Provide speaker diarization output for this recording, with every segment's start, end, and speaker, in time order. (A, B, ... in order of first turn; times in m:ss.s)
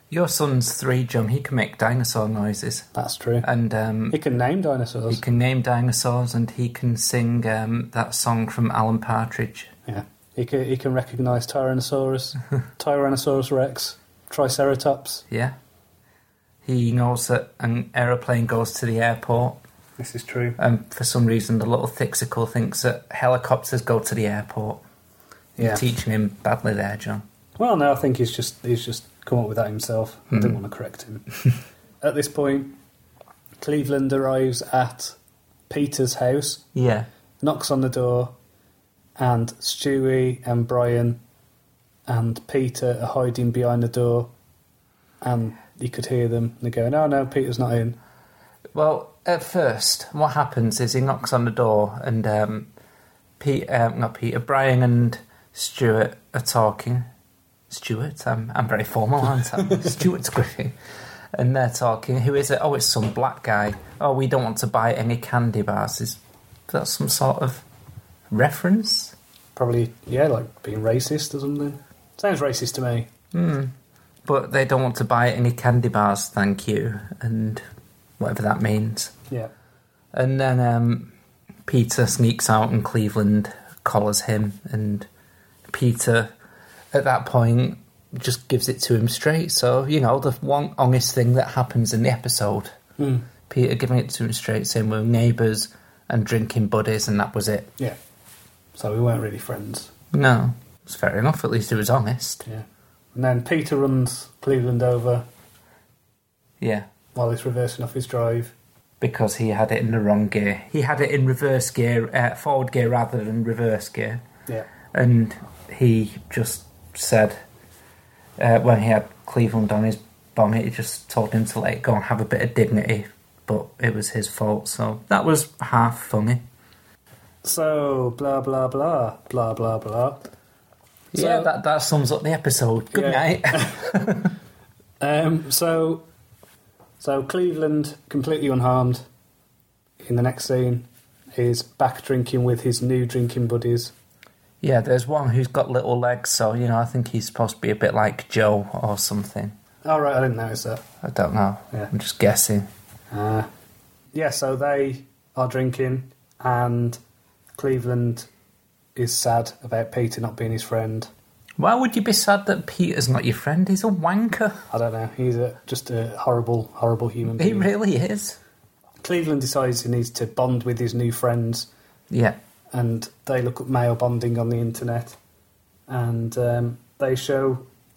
0:00.1-0:02.9 A
0:03.0-0:03.5 B
0:03.4-0:04.2 A
0:04.1-0:05.2 B
0:05.1-0:09.7 A
0:09.9-0:15.3 B
0:15.3-0:15.6 A
0:16.6-0:19.6 A
0:20.0-0:20.6 B
0:20.6-0:24.8 A
0:25.6-0:25.8 B
0:25.6-0:27.2 A
0:27.6-0:31.3 B
0:32.0-0:32.8 B
0:33.6-0:35.2 B
0:35.7-0:36.7 B
0:36.8-0:37.1 A
0:37.4-0:38.3 B
0:39.2-0:41.2 B
0:42.1-0:44.3 B
0:45.2-0:48.0 B
0:48.7-0:52.7 A
0:53.4-0:57.1 A
0:57.7-1:00.8 A
1:01.3-1:07.6 A
1:08.3-1:09.2 A
1:09.6-1:13.1 B
1:13.3-1:13.7 A
1:14.3-1:17.6 A
1:18.2-1:19.2 A
1:20.1-1:21.1 A
1:21.7-1:25.1 A
1:25.7-1:26.3 A
1:26.9-1:32.8 A
1:33.0-1:33.3 B
1:33.5-1:37.7 A
1:38.8-1:39.9 B
1:40.1-1:42.4 A
1:42.5-1:45.2 B
1:46.6-1:46.9 A
1:47.2-1:48.6 B
1:49.0-1:54.2 A
1:54.9-1:57.4 A
1:58.4-2:06.4 A
2:07.4-2:10.2 B
2:11.1-2:14.3 A
2:11.1-2:11.5 B
2:12.9-2:14.1 B
2:15.0-2:16.0 B
2:17.0-2:19.0 B
2:20.0-2:23.9 B
2:24.6-2:29.6 A
2:29.8-2:30.8 B
2:31.0-2:32.7 A
2:33.1-2:33.5 B
2:34.1-2:37.0 B
2:37.6-2:38.3 B
2:39.0-2:41.1 B
2:41.6-2:44.6 A
2:44.7-2:47.7 B
2:47.4-2:48.4 A
2:49.0-2:51.7 B
2:52.1-2:52.4 A
2:52.7-2:55.2 B
2:55.9-2:57.6 B